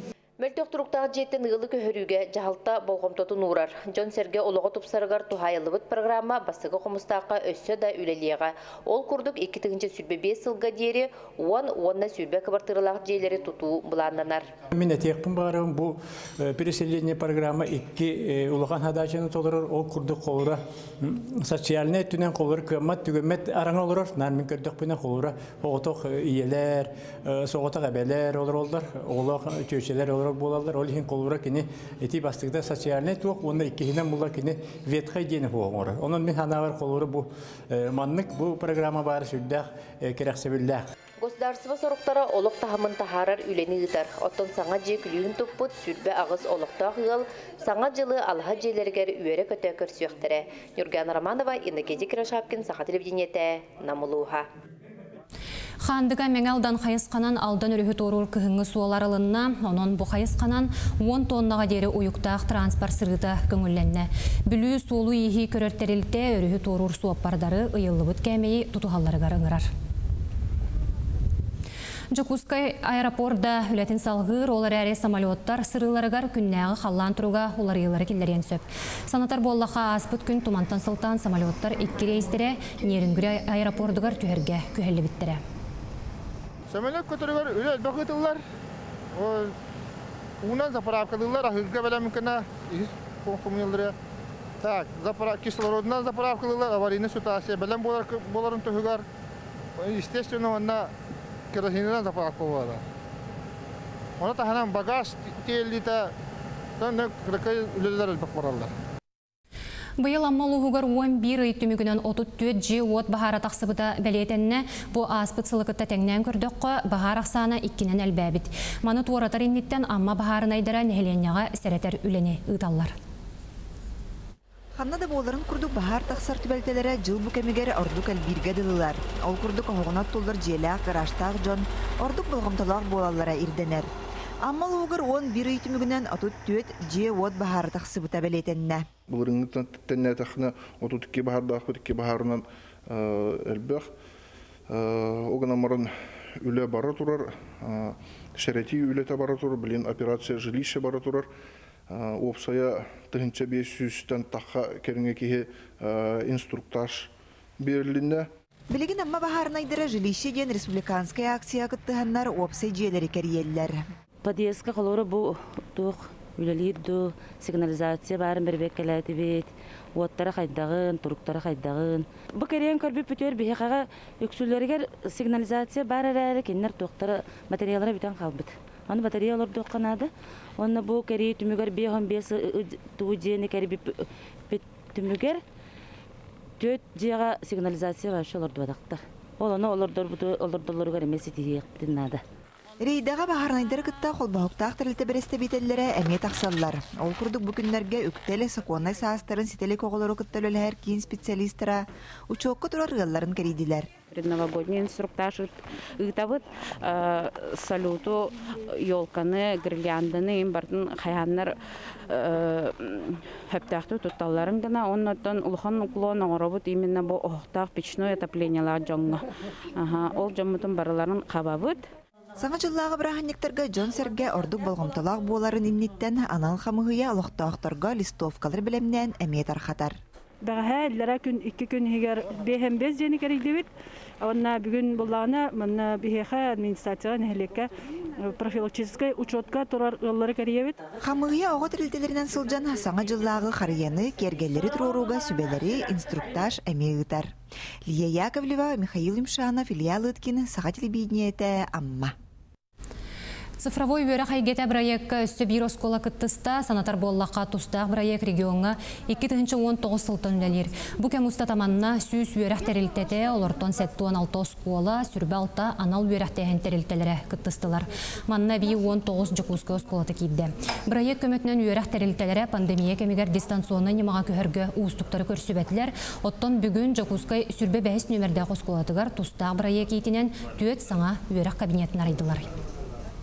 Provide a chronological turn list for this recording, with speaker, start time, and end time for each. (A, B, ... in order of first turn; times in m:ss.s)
0:00.4-0:14.5 A
0:14.7-0:40.8 B
0:41.2-0:54.5 A
0:55.8-1:09.7 C
1:12.1-1:25.4 C
1:26.7-1:28.4 D
1:29.1-1:29.5 D
1:30.4-1:33.9 D
1:34.6-1:39.0 D
1:39.8-1:40.9 D
1:41.5-1:42.8 D
1:44.2-1:46.1 D
1:46.8-1:48.7 D
1:50.0-2:02.9 C
2:04.8-2:13.9 E
2:14.4-2:18.9 E
2:19.1-2:23.9 F
2:24.7-2:31.3 F
2:31.9-2:38.3 F
2:38.7-2:43.8 E
2:44.2-3:05.4 G
3:06.6-3:12.2 G
3:12.8-3:23.9 E
3:24.1-3:41.8 H
3:42.4-3:50.0 E
3:50.4-3:53.7 I
3:54.2-4:00.8 I
4:01.0-4:07.3 E
4:07.9-4:12.1 E
4:13.6-4:42.5 C